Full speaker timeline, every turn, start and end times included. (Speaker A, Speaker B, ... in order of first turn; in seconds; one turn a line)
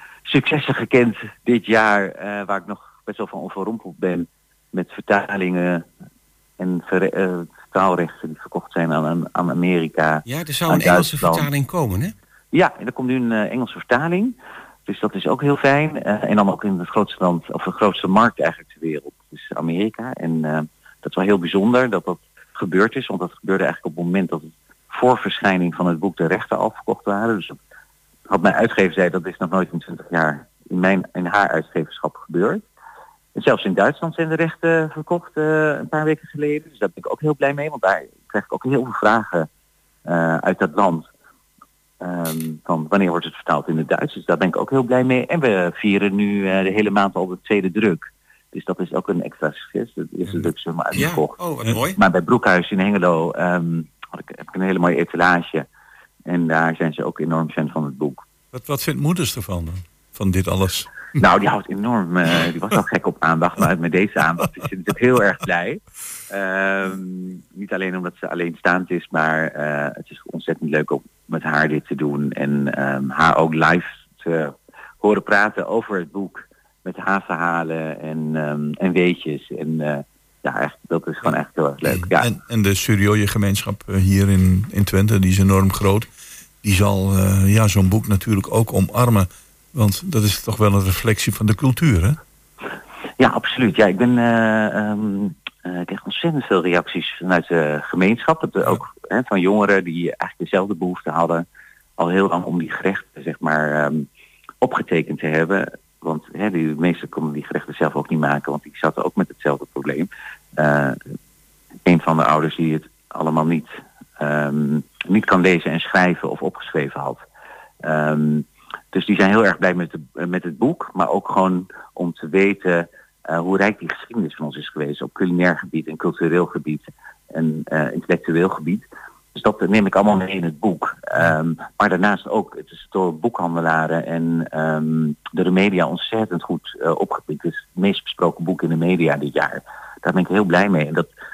Speaker A: 0.3-5.8
Speaker A: 6.6-11.5
Speaker B: 10.2-12.1
Speaker A: 12.5-14.3
Speaker A: 14.9-27.6
Speaker A: 28.3-32.6
Speaker A: 33.3-39.5
Speaker A: 40.0-41.0
Speaker A: 42.0-51.4
Speaker B: 50.9-52.0
Speaker A: 52.0-55.6
Speaker A: 56.2-58.2
Speaker C: 58.5-60.9
Speaker A: 61.2-82.3
Speaker C: 81.9-86.1
Speaker C: 86.6-92.2
Speaker A: 93.2-101.4
Speaker A: 102.0-104.0
Speaker A: 104.6-111.0
Speaker A: 111.8-113.7
Speaker A: 114.2-117.2
Speaker A: 117.8-141.1